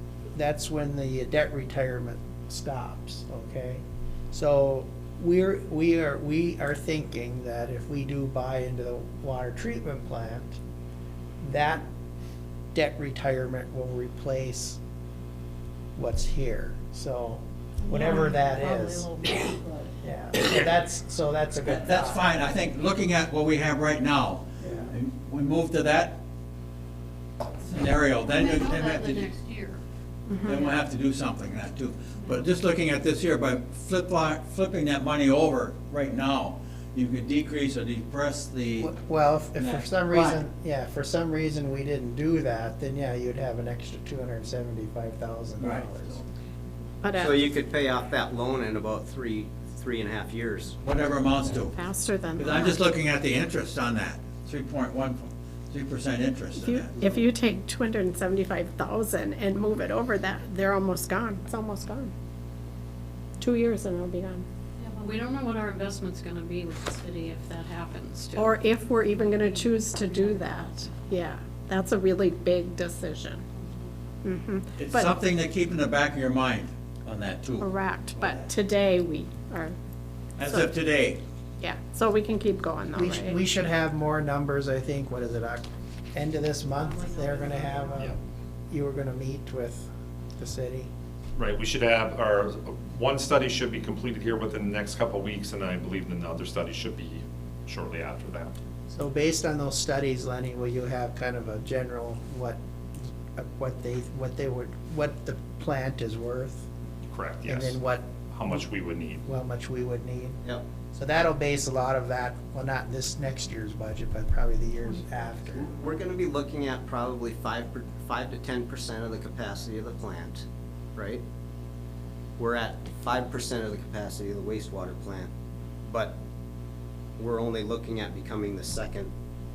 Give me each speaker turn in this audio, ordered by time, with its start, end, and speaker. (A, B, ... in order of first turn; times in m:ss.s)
0:00.3-0:10.6 A
0:11.4-0:11.9 A
0:12.7-0:14.8 A
0:16.0-0:19.1 A
0:17.9-0:19.9 B
0:20.0-0:22.2 A
0:21.6-0:26.2 C
0:24.6-0:24.9 A
0:27.6-0:29.3 C
0:28.2-0:29.8 D
0:30.3-0:30.6 B
0:30.4-0:38.9 C
0:38.8-0:46.2 A
0:39.6-0:40.4 C
0:45.6-0:46.2 C
0:47.0-0:47.3 B
0:47.1-0:50.8 E
0:50.8-0:51.8 C
0:51.6-0:52.8 B
0:52.4-0:57.2 C
0:56.5-1:02.1 B
1:03.4-1:04.4 B
1:04.8-1:08.6 D
1:08.4-1:13.4 B
1:10.1-1:10.5 D
1:14.2-1:15.1 B
1:14.8-1:18.5 C
1:17.6-1:19.7 B
1:20.4-1:21.2 C
1:21.6-1:23.4 B
1:22.9-1:28.2 A
1:26.7-1:28.0 D
1:28.7-1:30.9 A
1:31.4-1:38.5 F
1:38.9-1:42.6 A
1:43.4-1:46.7 A
1:47.1-1:47.8 F
1:47.4-1:48.6 A
1:48.3-1:49.2 F
1:49.2-1:50.4 A
1:50.9-1:55.7 A
1:55.6-2:01.2 E
2:02.4-2:05.3 E
2:05.8-2:06.2 E
2:07.2-2:09.1 E